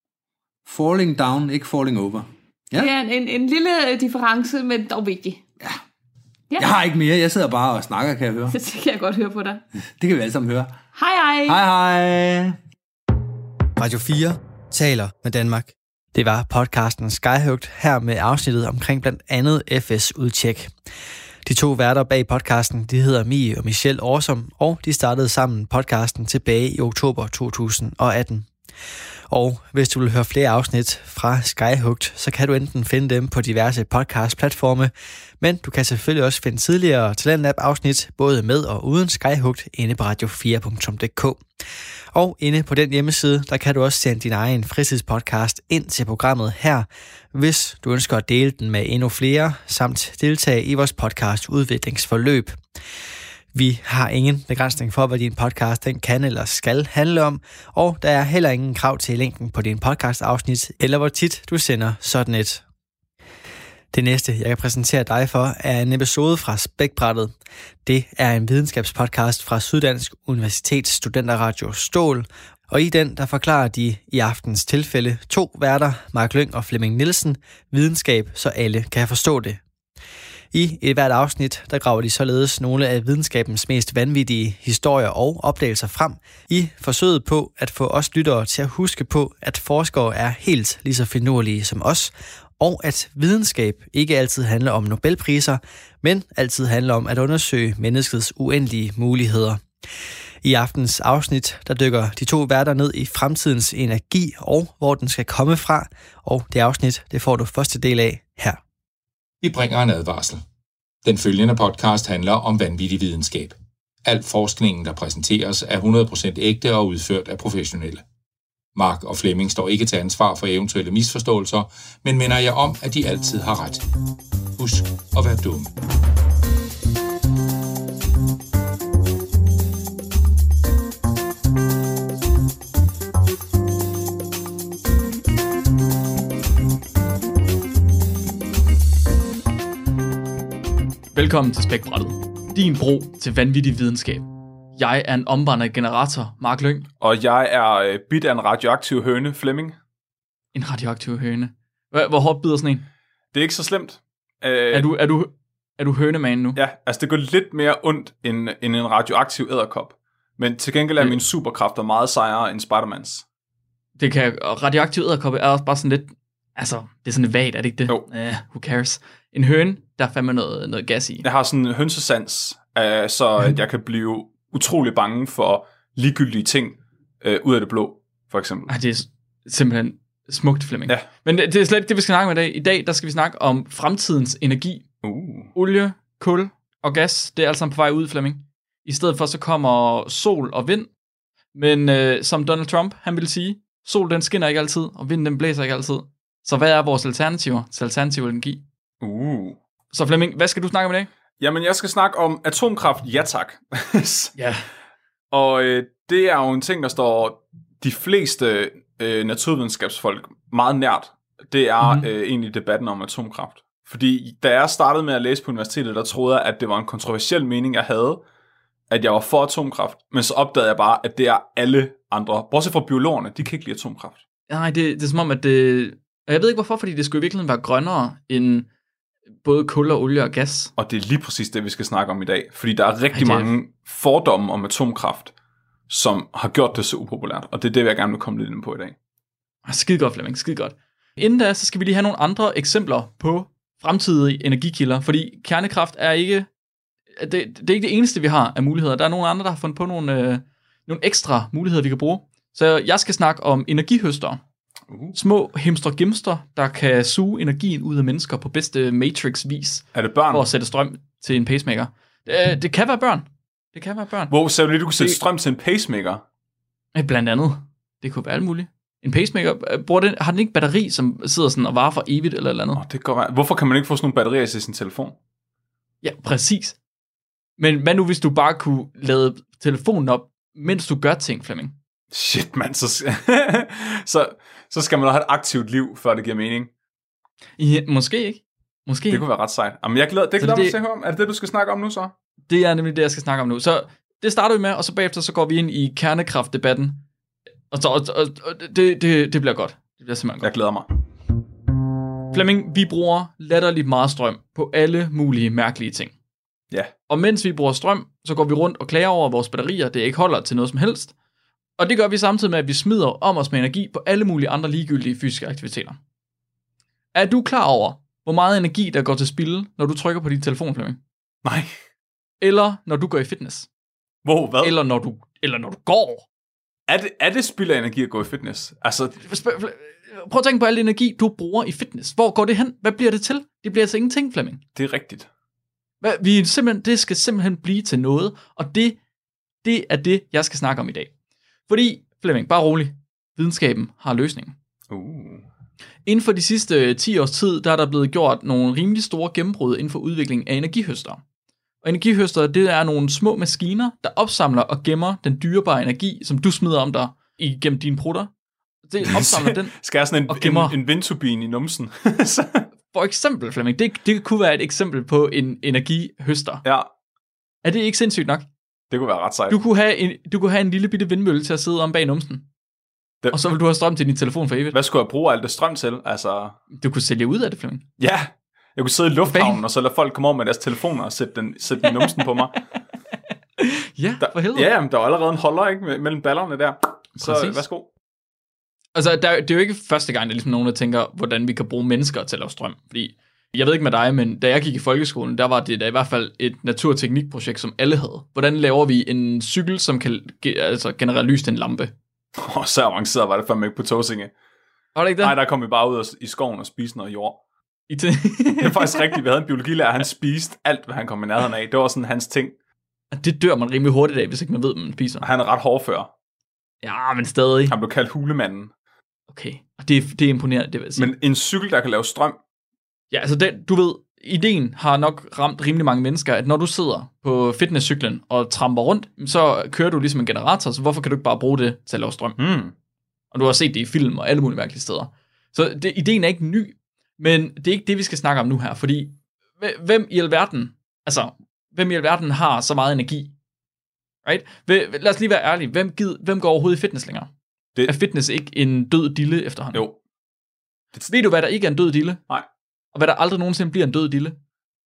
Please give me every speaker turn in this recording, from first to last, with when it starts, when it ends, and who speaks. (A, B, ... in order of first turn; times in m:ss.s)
0:00.6-0:02.9 A
0:02.7-0:05.4 B
0:06.6-0:08.6 A
0:08.5-0:09.6 B
0:10.0-0:10.8 A
0:10.9-0:11.6 B
0:11.5-0:12.6 A
0:13.8-0:20.7 C
0:21.4-0:28.4 C
0:29.3-0:41.4 C
0:42.1-0:52.6 C
0:53.5-1:02.6 C
1:03.9-1:07.3 C
1:07.8-1:19.6 C
1:20.5-1:39.6 C
1:40.4-1:48.6 C
1:49.4-1:50.4 D
1:51.0-1:58.0 D
1:58.7-2:03.8 D
2:04.6-2:05.7 D
2:21.1-2:26.9 E
2:27.0-2:29.8 F
2:30.5-2:32.8 E
2:33.3-2:34.9 F
2:34.7-2:36.6 E
2:36.6-2:43.2 F
2:44.0-2:51.2 E
2:51.2-2:58.7 F
2:58.7-3:04.9 E
3:05.0-3:05.5 F
3:05.5-3:10.9 E
3:11.5-3:18.6 E
3:19.0-3:19.6 F
3:19.9-3:21.1 E
3:21.4-3:24.3 F
3:24.3-3:24.6 E
3:25.3-3:38.2 F
3:31.8-3:32.1 E
3:38.9-3:44.2 F
3:44.5-3:48.7 E
3:49.4-3:50.7 E
3:50.8-3:55.3 F
3:53.1-3:53.5 E
3:55.9-3:58.9 F
3:59.6-4:06.5 E
4:07.2-4:14.4 E
4:14.9-4:15.2 F
4:15.1-4:24.3 E
4:19.9-4:20.5 F
4:24.3-4:26.2 F
4:26.9-4:32.8 E
4:32.8-4:35.1 F
4:36.0-4:36.8 E
4:37.6-4:41.8 E
4:42.1-4:46.7 F
4:47.6-4:49.2 E
4:49.1-4:52.1 F
4:50.4-4:50.8 E
4:52.5-4:57.0 E
4:57.7-5:00.5 E
5:00.4-5:00.9 F
5:02.3-5:06.1 E
5:07.1-5:11.1 E
5:11.8-5:16.0 E
5:17.1-5:21.0 E
5:21.4-5:21.8 F
5:22.4-5:23.7 E
5:24.2-5:24.8 F
5:24.6-5:26.2 E
5:26.9-5:29.2 F
5:29.2-5:34.6 E
5:34.7-5:35.3 F
5:36.0-5:39.0 E
5:39.6-5:41.1 E
5:41.7-5:44.5 E
5:44.9-5:45.4 F
5:46.0-5:51.2 E
5:51.8-5:58.3 E
5:58.9-5:59.7 E
5:59.0-6:02.6 F
6:00.3-6:00.8 E
6:02.9-6:06.6 E
6:07.6-6:08.5 E
6:08.9-6:09.6 F
6:09.5-6:12.4 E
6:13.3-6:14.8 E
6:14.7-6:16.6 F
6:16.8-6:17.8 E
6:18.0-6:22.5 F
6:19.2-6:19.6 E
6:23.6-6:24.7 E
6:24.2-6:27.9 F
6:27.2-6:27.6 E
6:28.9-6:41.9 E
6:42.4-6:44.3 F
6:44.9-6:45.4 E
6:45.2-6:47.4 F
6:47.9-6:49.2 E
6:48.6-6:52.5 F
6:53.1-6:55.2 E
6:55.2-6:56.1 F
6:56.8-6:57.7 E
6:57.7-6:58.7 F
6:59.3-7:01.1 E
7:01.0-7:02.4 F
7:03.1-7:12.4 E
7:12.4-7:12.7 F
7:13.3-7:23.3 E
7:24.2-7:27.3 E
7:27.9-7:29.8 E
7:31.0-7:32.2 E
7:32.9-7:34.4 E